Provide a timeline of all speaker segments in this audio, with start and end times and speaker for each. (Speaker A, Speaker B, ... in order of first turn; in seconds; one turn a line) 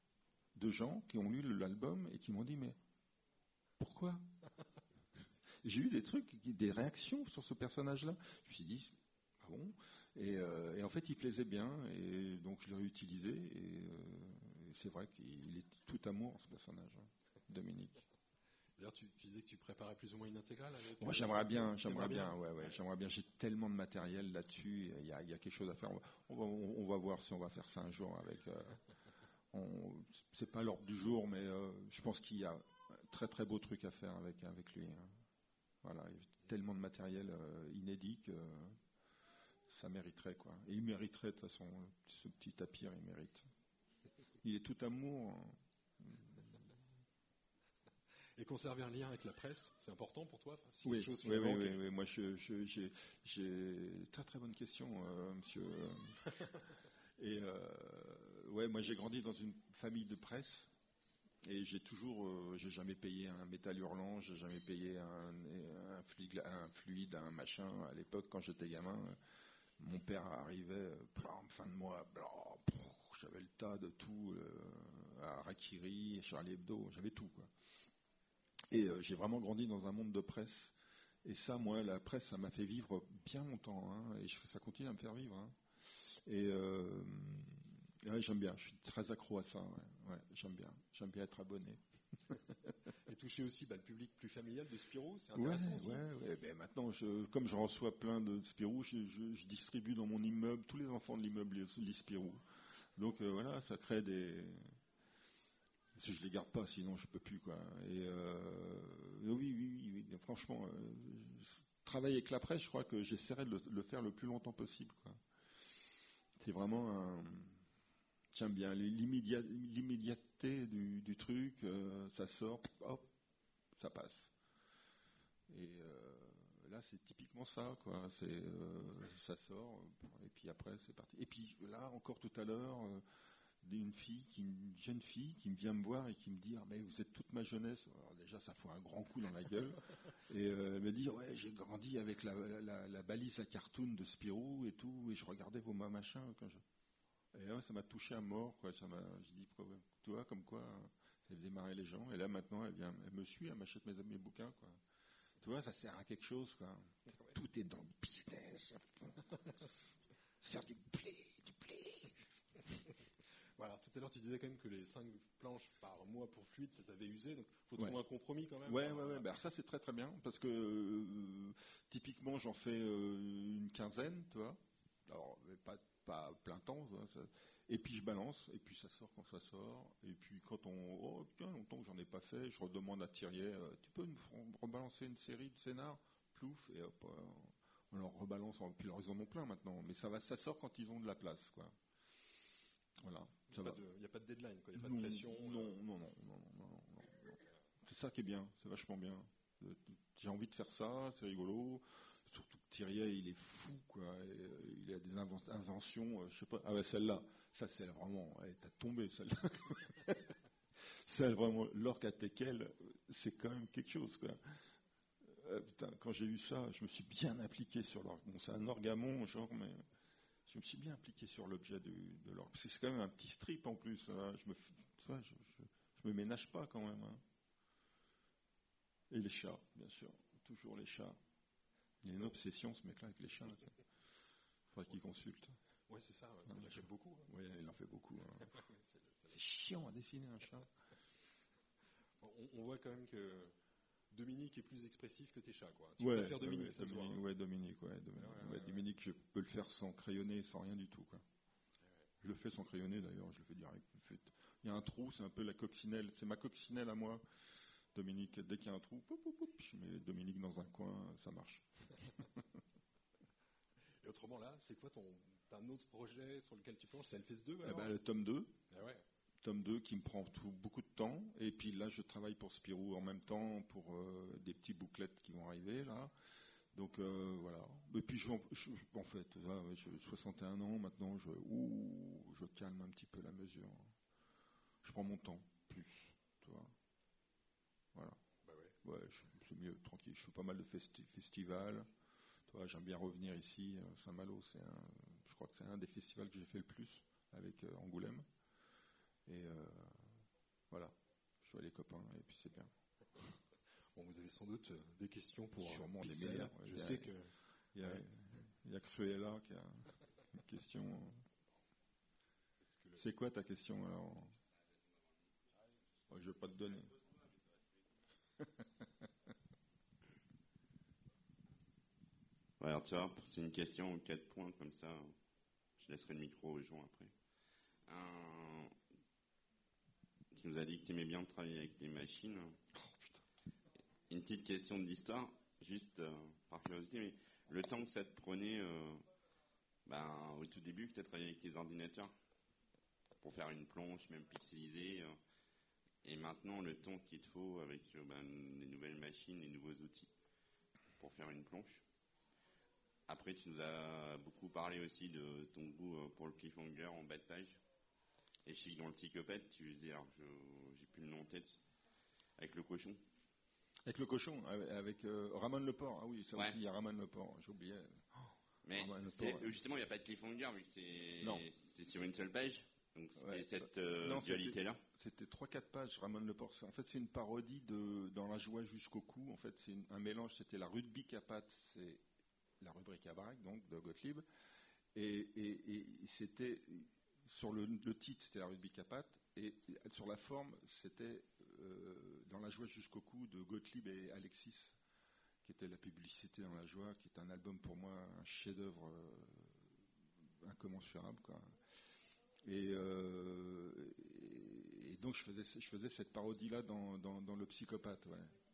Speaker A: 0.6-2.8
Speaker A: 3.8-4.3
Speaker A: 5.6-18.1
Speaker B: 18.8-22.8
Speaker A: 21.0-28.9
Speaker A: 29.5-35.1
Speaker A: 35.8-38.8
Speaker A: 39.7-43.5
Speaker A: 44.4-46.8
Speaker B: 48.4-51.8
Speaker A: 50.8-56.6
Speaker A: 57.2-60.7
Speaker A: 61.4-69.2
Speaker A: 69.8-77.5
Speaker A: 78.7-92.7
Speaker B: 93.0-96.1
Speaker A: 95.3-102.4
Speaker A: 103.0-104.7
Speaker A: 106.0-115.2
Speaker A: 116.4-117.6
Speaker A: 118.3-123.1
Speaker A: 123.8-124.3
Speaker A: 125.5-133.0
Speaker A: 133.6-146.6
Speaker A: 147.3-154.8
Speaker A: 155.4-159.5
Speaker A: 160.4-162.2
Speaker B: 163.6-169.3
Speaker A: 168.7-191.8
Speaker A: 193.0-193.8
Speaker B: 193.5-195.8
Speaker A: 194.8-214.6
Speaker A: 215.2-219.8
Speaker A: 220.5-227.2
Speaker A: 229.1-231.2
Speaker A: 232.0-233.8
Speaker A: 234.7-235.5
Speaker B: 235.9-237.3
Speaker A: 236.5-238.6
Speaker B: 238.5-239.3
Speaker A: 239.3-240.7
Speaker B: 242.2-243.5
Speaker B: 244.1-247.2
Speaker A: 246.0-251.2
Speaker B: 248.2-248.8
Speaker A: 252.2-257.2
Speaker A: 257.9-262.4
Speaker B: 264.0-267.9
Speaker A: 267.6-268.6
Speaker B: 268.7-269.0
Speaker A: 269.4-276.1
Speaker A: 276.7-283.9
Speaker A: 284.8-286.7
Speaker B: 288.4-288.8
Speaker A: 288.8-291.9
Speaker A: 292.5-298.2
Speaker A: 299.3-303.3
Speaker B: 303.9-307.3
Speaker A: 305.5-307.1
Speaker A: 307.7-311.2
Speaker B: 312.6-313.0
Speaker A: 313.0-314.4
Speaker A: 316.1-317.0
Speaker A: 318.4-318.9
Speaker C: 322.6-325.1
Speaker C: 325.8-327.1
Speaker C: 327.9-328.7
Speaker C: 330.3-332.6
Speaker A: 332.7-333.2
Speaker C: 334.1-339.0
Speaker C: 339.9-342.1
Speaker C: 343.2-345.2
Speaker C: 346.0-350.1
Speaker C: 351.0-351.8
Speaker C: 353.1-357.6
Speaker C: 358.5-361.6
Speaker C: 362.4-363.0
Speaker A: 363.9-369.6
Speaker C: 368.7-374.8
Speaker A: 371.2-371.5
Speaker A: 373.2-382.0
Speaker A: 382.6-384.2
Speaker A: 384.9-394.8
Speaker A: 395.4-399.7
Speaker A: 400.4-401.5
Speaker A: 402.4-408.4